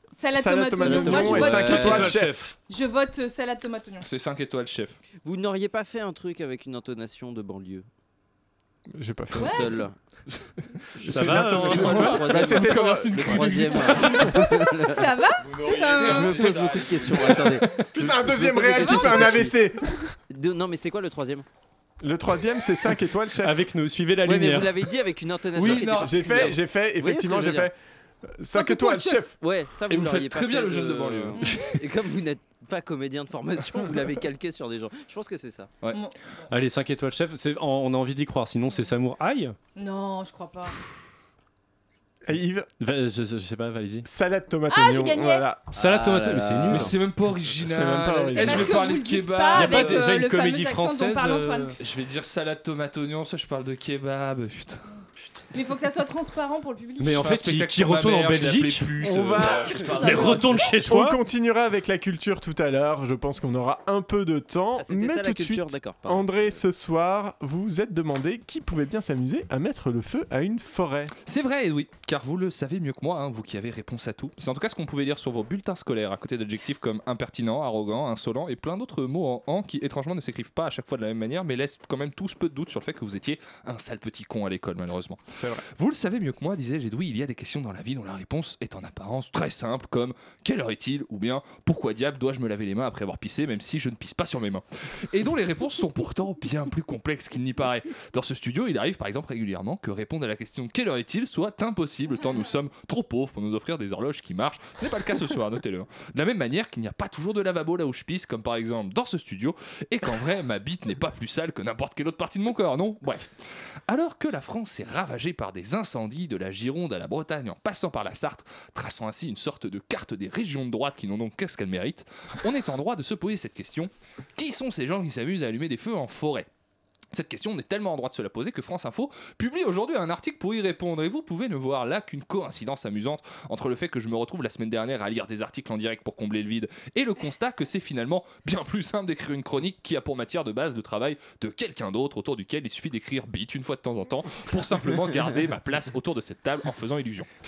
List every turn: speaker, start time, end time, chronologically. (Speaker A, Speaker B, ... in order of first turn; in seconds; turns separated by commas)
Speaker A: 0.2-2.1, Speaker B: 0.3-2.4, Speaker C: 0.8-2.1, Speaker D: 1.1-2.5, Speaker A: 2.7-4.1, Speaker E: 4.0-5.0, Speaker C: 5.2-7.8, Speaker B: 8.9-9.8, Speaker A: 9.3-9.8, Speaker C: 9.4-9.9, Speaker D: 11.0-12.3, Speaker B: 11.0-14.1, Speaker C: 11.2-15.1, Speaker E: 11.3-14.6, Speaker A: 13.9-16.6, Speaker E: 15.4-18.2, Speaker C: 16.0-17.7, Speaker B: 17.9-20.2, Speaker C: 18.3-19.5, Speaker A: 18.8-19.2, Speaker C: 20.3-21.4, Speaker B: 22.0-23.7, Speaker D: 23.4-24.8, Speaker C: 24.2-27.7, Speaker E: 25.6-26.6, Speaker B: 25.6-29.4, Speaker A: 28.6-29.2, Speaker C: 29.4-35.7, Speaker E: 29.9-31.7, Speaker A: 31.4-31.8, Speaker D: 36.5-39.6, Speaker A: 39.8-40.8, Speaker B: 42.3-42.7, Speaker D: 42.8-44.1, Speaker B: 44.0-45.7, Speaker A: 44.7-45.5, Speaker C: 45.8-47.0, Speaker D: 45.8-47.0, Speaker E: 46.7-50.1, Speaker B: 47.6-48.8, Speaker A: 48.3-51.8, Speaker D: 49.5-51.8, Speaker E: 51.8-54.9, Speaker A: 55.5-57.2, Speaker D: 57.0-58.9, Speaker E: 57.1-60.6, Speaker B: 59.0-71.1, Speaker A: 59.8-60.5, Speaker D: 60.0-61.2, Speaker C: 64.8-66.6, Speaker E: 71.3-85.2, Speaker B: 85.4-85.6, Speaker E: 85.8-113.3, Speaker E: 113.9-126.5, Speaker E: 127.1-147.3